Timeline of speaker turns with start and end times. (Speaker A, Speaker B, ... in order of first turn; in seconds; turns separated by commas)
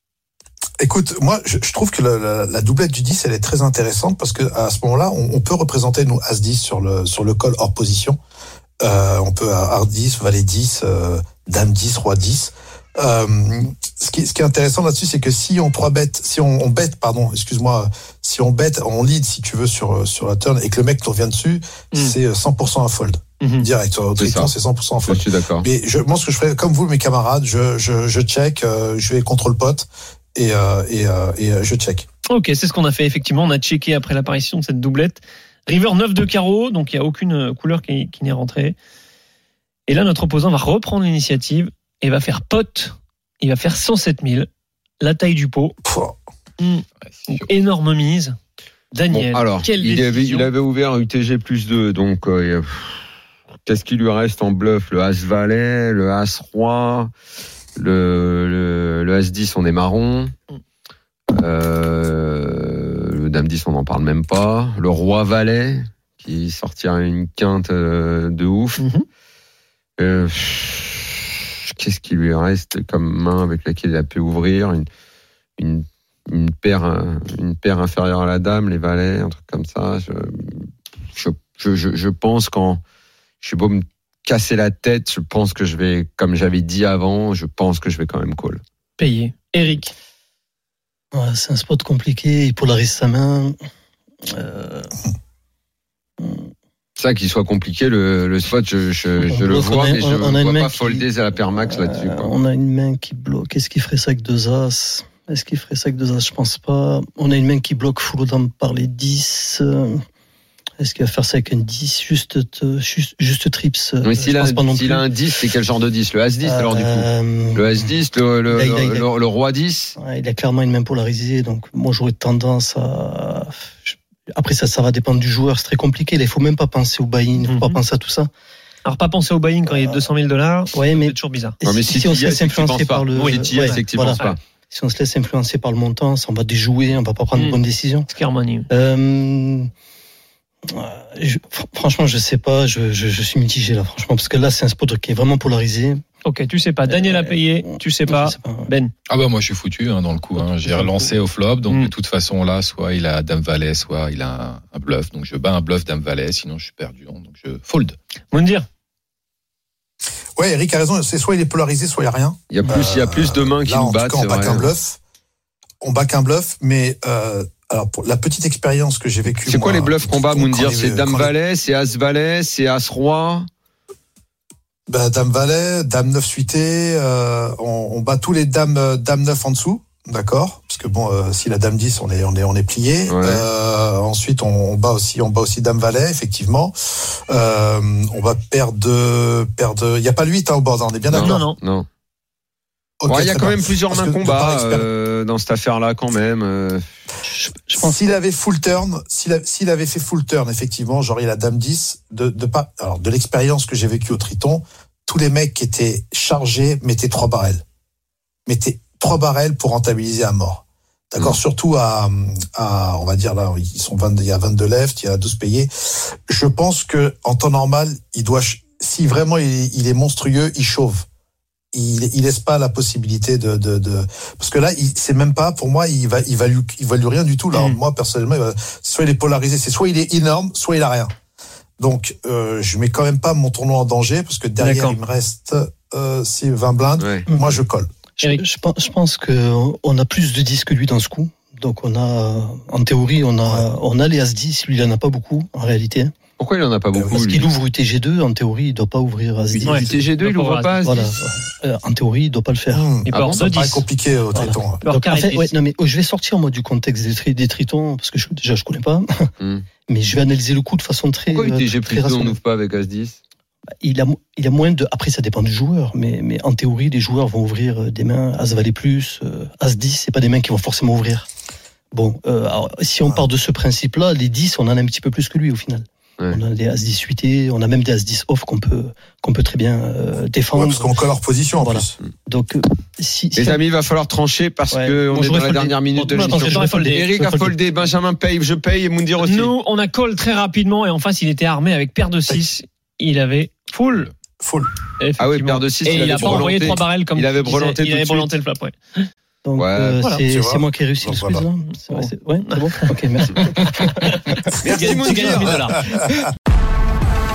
Speaker A: 0.8-8.2, Speaker A: 8.8-32.1, Speaker B: 23.4-23.7, Speaker C: 24.2-24.5, Speaker C: 25.1-25.7, Speaker B: 32.3-38.8, Speaker B: 39.9-44.5, Speaker B: 45.0-45.8, Speaker A: 45.9-46.1, Speaker B: 46.6-48.4, Speaker D: 47.1-47.5, Speaker B: 48.9-50.5, Speaker C: 49.1-53.0, Speaker C: 53.7-57.1, Speaker C: 57.8-60.3, Speaker C: 61.3-68.8, Speaker B: 68.8-69.0, Speaker C: 70.0-74.9, Speaker C: 75.6-82.8, Speaker C: 83.4-88.6, Speaker B: 89.0-89.9, Speaker E: 91.2-93.5, Speaker E: 94.4-94.9, Speaker C: 97.0-102.3, Speaker E: 99.2-101.0, Speaker E: 101.6-109.9, Speaker E: 110.8-115.0, Speaker C: 114.0-120.0, Speaker E: 116.4-117.8, Speaker E: 118.5-119.1, Speaker E: 120.0-128.3, Speaker B: 127.4-127.8, Speaker B: 128.8-131.6, Speaker E: 130.7-138.1, Speaker C: 131.6-134.4, Speaker B: 133.2-134.4, Speaker B: 137.3-138.7, Speaker E: 138.7-139.7, Speaker E: 140.8-146.0, Speaker B: 146.2-148.9, Speaker E: 146.9-148.7, Speaker D: 149.1-158.0, Speaker B: 158.3-158.7, Speaker A: 160.4-165.0, Speaker C: 162.5-164.7, Speaker A: 165.8-171.3, Speaker C: 169.5-173.5, Speaker A: 174.9-191.5, Speaker C: 183.1-183.5, Speaker C: 191.1-191.9, Speaker B: 191.2-191.6, Speaker A: 193.0-194.9, Speaker C: 193.1-196.9, Speaker E: 197.3-198.0, Speaker A: 197.8-207.6, Speaker A: 208.5-221.1, Speaker A: 221.7-231.1, Speaker B: 227.5-227.8, Speaker A: 231.8-237.9, Speaker B: 234.6-235.0, Speaker C: 237.0-237.3, Speaker E: 238.2-246.1, Speaker C: 246.4-247.5, Speaker A: 246.9-247.2, Speaker E: 247.2-250.0, Speaker C: 249.5-251.1, Speaker B: 249.6-251.1, Speaker E: 250.8-252.9, Speaker A: 252.7-254.8, Speaker B: 253.1-253.9, Speaker C: 253.1-253.4, Speaker E: 254.3-259.1, Speaker B: 254.8-255.5, Speaker C: 259.4-259.7, Speaker E: 259.9-262.4, Speaker C: 261.3-263.2, Speaker E: 263.8-271.3, Speaker E: 271.9-281.0, Speaker A: 280.5-282.0, Speaker E: 281.6-283.6, Speaker C: 283.4-289.5, Speaker E: 284.7-287.6, Speaker B: 286.0-287.1, Speaker B: 289.2-294.1, Speaker A: 294.4-294.7, Speaker B: 295.0-299.1, Speaker C: 295.2-298.3, Speaker E: 299.4-303.4, Speaker C: 299.6-300.0, Speaker B: 300.0-300.2, Speaker A: 300.2-301.5, Speaker B: 301.8-306.1, Speaker C: 304.6-305.7, Speaker A: 305.2-305.7